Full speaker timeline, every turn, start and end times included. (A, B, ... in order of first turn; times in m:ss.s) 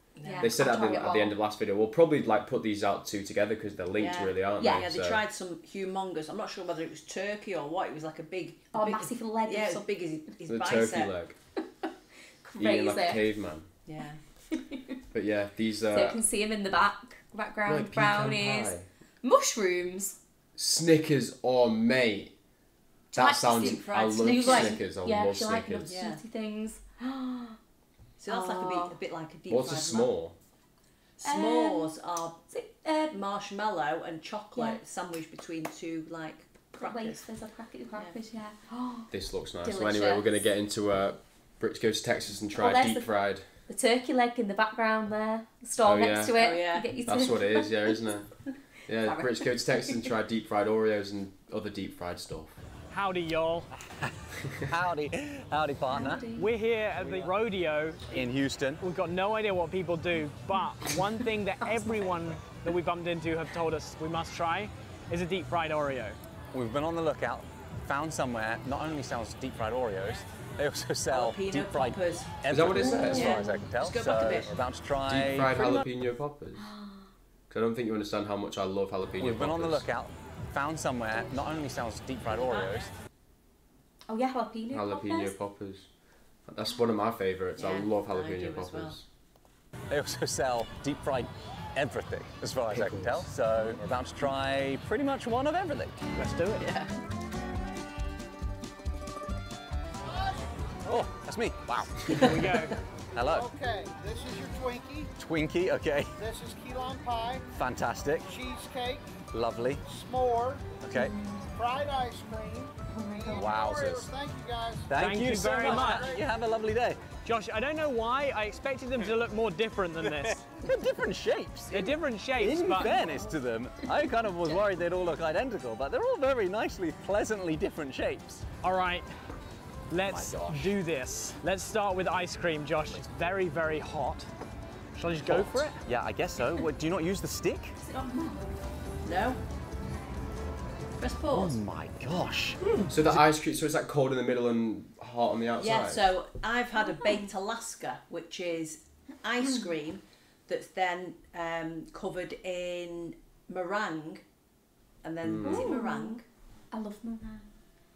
0:00.2-0:00.5 A
0:00.2-0:01.3 B
0:00.4-0:05.2 C
0:04.0-0:11.2 A
0:04.6-0:04.9 B
0:08.7-0:09.9 B
0:10.5-0:11.4 C
0:12.4-0:13.2 B
0:12.6-0:13.7 C
0:13.9-0:14.2 A
0:14.5-0:15.0 B
0:15.1-0:16.2 C
0:15.9-0:20.2 B
0:17.7-0:18.9 C
0:20.6-0:22.4 C
0:23.1-0:27.6 B
0:23.1-0:25.9 C
0:23.6-0:24.8 A
0:25.8-0:26.2 A
0:28.2-0:30.2 A
0:28.3-0:29.0 B
0:29.5-0:30.4 C
0:31.2-0:32.4 A
0:31.2-0:32.0 B
0:32.5-0:33.2 B
0:33.1-0:37.3 A
0:34.6-0:34.8 B
0:36.8-0:39.1 B
0:37.9-0:38.2 A
0:39.1-0:43.5 C
0:39.6-0:40.4 B
0:42.5-0:43.1 B
0:43.7-0:48.0 B
0:45.8-0:46.4 C
0:46.4-0:47.0 A
0:47.0-0:48.3 C
0:48.9-0:52.6 C
0:49.0-0:50.1 B
0:52.9-0:53.7 D
0:54.7-0:56.3 E
0:55.9-0:56.5 B
0:56.4-0:58.1 D
0:58.1-0:58.8 E
0:58.8-1:06.2 D
1:01.6-1:02.2 B
1:06.5-1:15.6 E
1:11.1-1:14.6 A
1:12.5-1:13.5 C
1:12.8-1:13.7 B
1:15.1-1:16.7 C
1:16.6-1:17.1 B
1:17.5-1:19.9 C
1:19.2-1:22.9 E
1:24.1-1:25.3 B
1:24.7-1:25.9 C
1:26.5-1:29.0 C
1:27.6-1:29.0 A
1:29.9-1:36.0 E
1:32.7-1:33.3 C
1:36.1-1:36.7 D
1:36.6-1:36.9 A
1:40.8-1:42.3 E
1:42.1-1:42.7 D
1:43.1-1:43.5 E
1:43.2-1:45.1 F
1:45.2-1:46.1 E
1:46.2-1:47.5 F
1:47.5-1:48.4 E
1:48.2-1:49.1 F
1:49.3-1:49.8 E
1:49.8-1:50.8 F
1:50.8-1:51.2 E
1:50.9-1:51.5 B
1:51.6-1:56.3 F
1:52.9-1:53.6 B
1:53.3-1:54.1 E
1:54.9-1:57.0 E
1:54.9-1:56.1 D
1:57.2-2:00.4 D
2:00.4-2:08.5 E
2:01.7-2:03.2 D
2:02.8-2:03.4 B
2:08.6-2:09.1 D
2:09.9-2:14.3 D
2:10.0-2:10.7 E
2:15.0-2:15.8 D
2:15.3-2:17.8 E
2:17.8-2:18.5 B
2:19.0-2:19.4 A
2:21.0-2:21.6 A
2:21.3-2:23.2 E
2:22.9-2:26.0 C
2:25.6-2:34.2 A
2:26.7-2:27.3 B
2:29.4-2:29.7 B
2:35.0-2:36.2 A
2:35.2-2:35.8 C
2:35.4-2:37.5 B